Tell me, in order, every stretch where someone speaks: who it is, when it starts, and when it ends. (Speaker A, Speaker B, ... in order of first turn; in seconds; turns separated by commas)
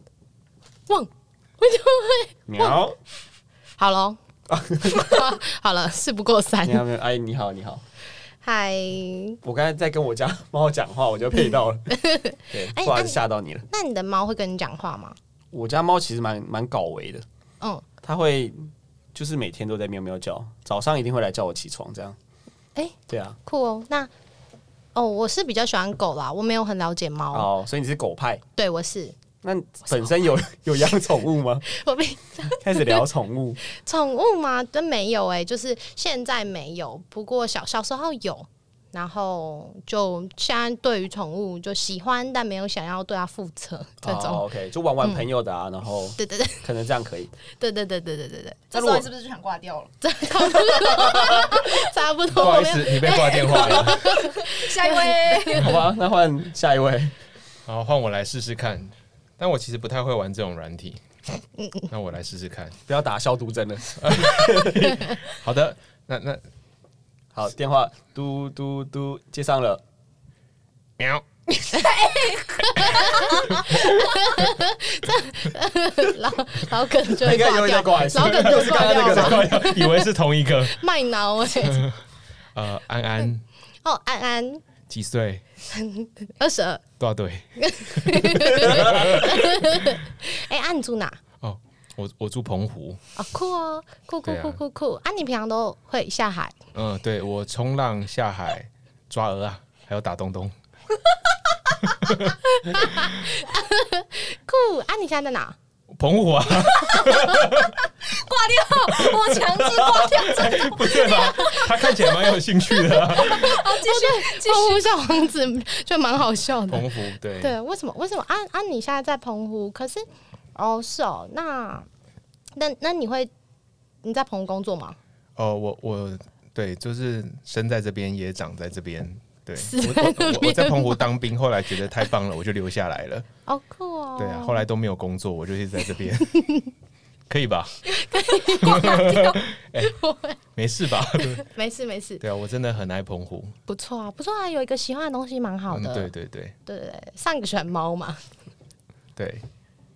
Speaker A: 0.9-2.8, Speaker B: 2.5-3.0, Speaker A: 3.8-4.2, Speaker B: 4.5-5.3, Speaker A: 4.8-6.9, Speaker B: 6.6-7.8, Speaker A: 8.4-9.4, Speaker B: 9.4-11.9, Speaker A: 11.9-15.2, Speaker B: 12.5-13.7, Speaker B: 15.5-17.2, Speaker B: 18.0-22.1, Speaker A: 22.8-24.1, Speaker B: 23.1-23.4, Speaker A: 24.9-27.5, Speaker B: 27.3-28.4, Speaker A: 28.6-29.2, Speaker B: 29.4-31.6, Speaker A: 31.6-33.0, Speaker B: 32.5-33.6, Speaker A: 33.6-44.4, Speaker B: 44.0-47.3, Speaker A: 46.2-46.6, Speaker A: 47.6-48.6, Speaker C: 48.7-49.9, Speaker B: 48.7-49.0, Speaker A: 50.0-55.6, Speaker B: 50.8-51.3, Speaker D: 52.3-54.2, Speaker C: 53.6-55.8, Speaker B: 55.5-57.1, Speaker D: 57.6-61.0, Speaker A: 61.6-61.9, Speaker D: 61.9-62.8, Speaker B: 62.9-64.9, Speaker D: 64.0-66.4, Speaker B: 67.3-69.8, Speaker D: 71.0-72.0, Speaker C: 71.7-73.5, Speaker A: 71.8-80.1, Speaker D: 72.8-73.8, Speaker B: 77.2-79.5, Speaker D: 78.4-80.8, Speaker A: 80.6-81.9, Speaker D: 81.6-82.0, Speaker D: 82.5-83.4, Speaker A: 83.8-84.6, Speaker D: 84.9-85.4, Speaker A: 85.7-86.8, Speaker D: 87.0-89.9, Speaker A: 87.6-91.2, Speaker D: 91.4-93.0, Speaker A: 93.2-96.5, Speaker D: 94.2-94.6, Speaker D: 96.7-100.5, Speaker D: 101.9-103.1, Speaker A: 102.6-105.5, Speaker D: 105.9-107.8, Speaker C: 106.6-114.9, Speaker D: 108.9-113.6, Speaker A: 113.3-121.9, Speaker D: 116.7-117.5, Speaker A: 122.5-123.3, Speaker A: 124.0-125.0, Speaker D: 125.3-133.3, Speaker A: 129.6-131.1, Speaker A: 133.5-134.6, Speaker D: 134.2-136.4, Speaker A: 136.3-136.7, Speaker D: 137.3-137.8, Speaker A: 137.9-140.4, Speaker C: 138.2-139.2, Speaker D: 138.6-139.9, Speaker D: 140.5-141.4, Speaker A: 141.1-142.2, Speaker D: 142.2-143.6, Speaker A: 143.7-146.1, Speaker D: 145.7-146.6, Speaker A: 146.6-148.2, Speaker D: 149.2-149.4